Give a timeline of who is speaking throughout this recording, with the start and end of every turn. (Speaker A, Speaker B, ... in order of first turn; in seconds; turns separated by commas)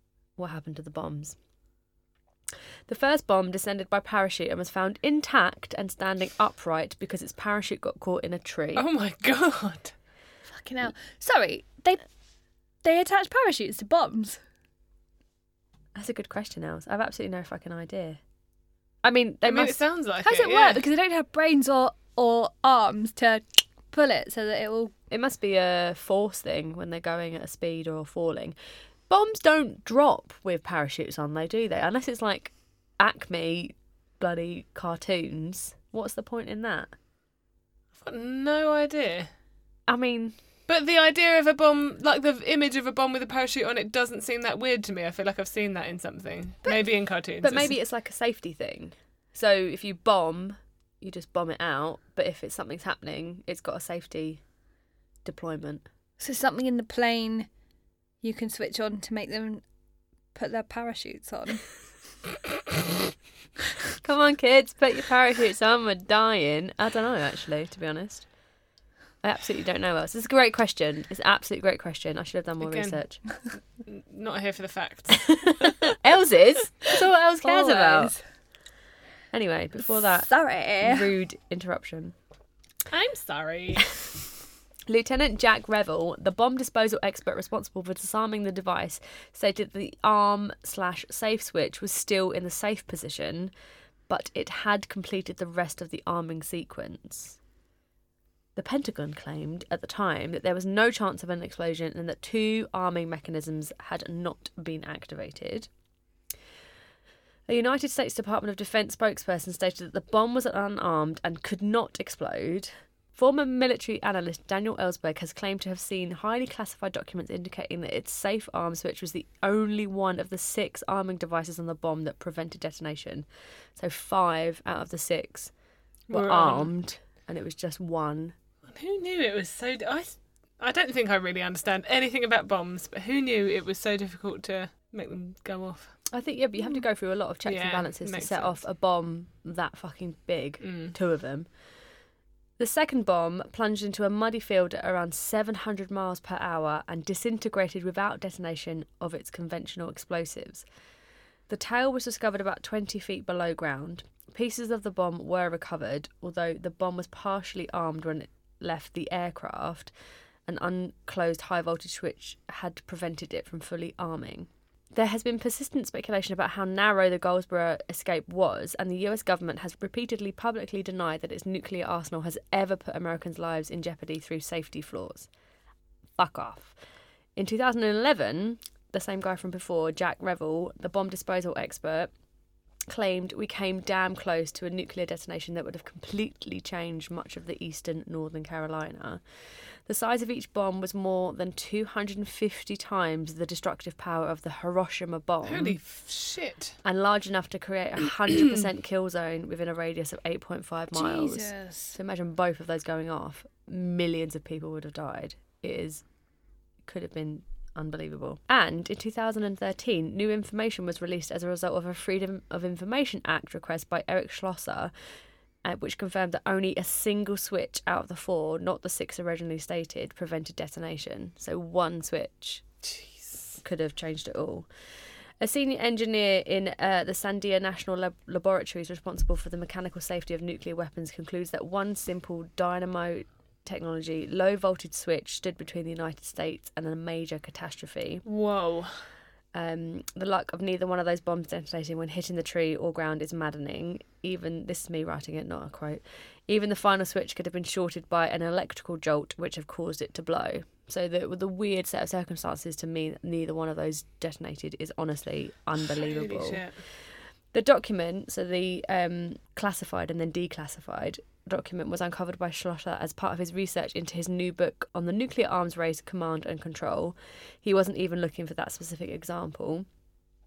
Speaker A: 0.4-1.4, Speaker A: 2.9-8.9, Speaker B: 8.8-9.9, Speaker C: 10.5-12.0, Speaker C: 12.8-14.4, Speaker A: 15.9-18.2, Speaker A: 19.0-19.8, Speaker B: 19.4-20.9, Speaker C: 20.2-24.9, Speaker A: 25.1-28.6, Speaker A: 29.1-36.9, Speaker B: 38.0-39.3, Speaker A: 39.9-40.4, Speaker B: 40.7-47.7, Speaker A: 47.4-54.4, Speaker A: 55.2-55.9, Speaker C: 56.2-57.5, Speaker C: 58.2-59.6, Speaker C: 60.4-61.7, Speaker A: 64.0-68.3, Speaker A: 69.2-73.2, Speaker B: 72.6-73.0, Speaker B: 73.8-75.9, Speaker A: 75.4-78.2, Speaker C: 77.4-78.2, Speaker A: 79.3-82.2, Speaker C: 80.3-81.1, Speaker B: 82.9-83.9, Speaker A: 84.9-93.5, Speaker A: 94.1-97.4, Speaker A: 98.6-105.7, Speaker A: 107.5-125.5, Speaker B: 126.1-126.7, Speaker A: 126.1-128.3, Speaker B: 128.7-135.9, Speaker A: 136.1-141.5, Speaker B: 137.4-138.6, Speaker B: 140.6-140.9, Speaker A: 142.6-150.7, Speaker A: 151.5-159.9, Speaker A: 160.5-175.3, Speaker A: 176.2-176.8, Speaker A: 177.4-182.1, Speaker A: 182.9-189.2, Speaker A: 189.9-195.8, Speaker B: 195.4-196.8, Speaker A: 196.8-206.1, Speaker C: 200.9-202.0, Speaker A: 206.8-214.9, Speaker A: 215.6-222.6, Speaker B: 222.8-223.6, Speaker A: 223.6-224.7, Speaker A: 225.4-238.2, Speaker B: 238.2-239.0, Speaker A: 239.5-256.7, Speaker B: 255.8-256.8, Speaker A: 257.5-269.9